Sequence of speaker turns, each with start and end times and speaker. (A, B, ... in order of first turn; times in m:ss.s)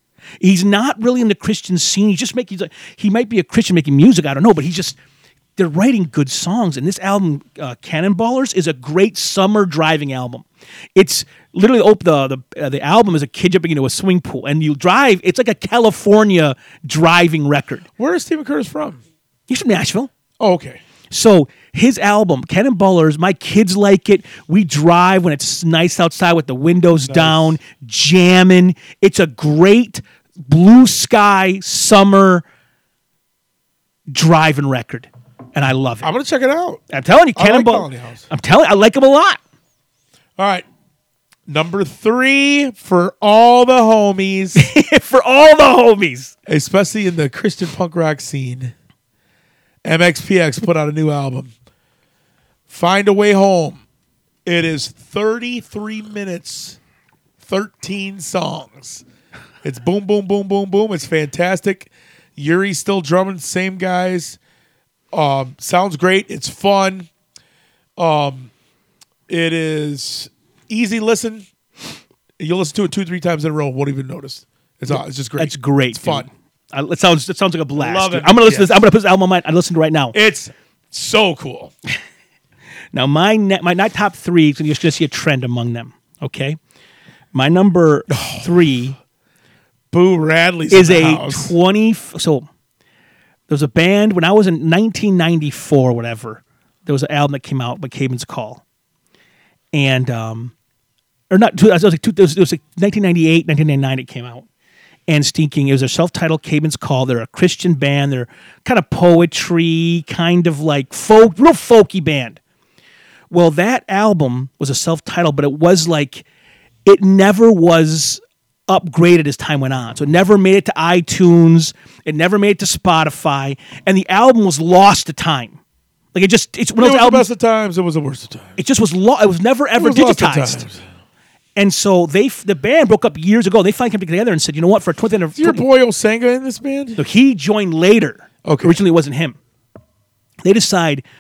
0:00.4-0:05.0 A
0:05.6-0:17.8 A
0:18.0-0:19.0 B
0:19.5-0:20.1 A
0:20.4-0:20.8 B
0:21.1-0:32.4 A
0:27.0-0:27.6 B
0:34.1-0:36.1 A
0:36.0-0:36.8 B
0:36.9-0:39.4 A
0:37.4-0:38.3 B
0:40.4-0:40.6 B
0:41.5-0:44.7 B
0:44.6-0:46.3 A
0:46.5-0:48.7 B
0:49.8-0:51.5 B
0:52.7-0:53.8 B
0:54.4-0:56.8 B
0:57.4-0:59.0 B
0:59.6-1:04.4 B
1:05.1-1:07.1 B
1:08.0-1:08.5 B
1:09.3-1:11.5 B
1:12.4-1:16.3 B
1:14.9-1:20.2 A
1:17.8-1:18.8 B
1:20.1-1:21.7 B
1:22.9-1:26.6 A
1:27.3-1:29.0 A
1:28.1-1:28.7 B
1:29.9-1:31.6 B
1:30.7-1:32.5 A
1:33.5-1:38.6 A
1:39.7-1:40.5 A
1:41.3-1:44.5 A
1:45.1-1:52.4 A
1:53.3-1:56.3 A
1:56.8-2:05.6 A
2:06.1-2:07.2 A
2:06.8-2:08.6 B
2:08.6-2:10.7 A
2:09.8-2:10.8 B
2:11.6-2:15.6 A
2:15.4-2:17.0 B
2:17.0-2:19.4 A
2:18.4-2:18.8 B
2:20.4-2:21.0 A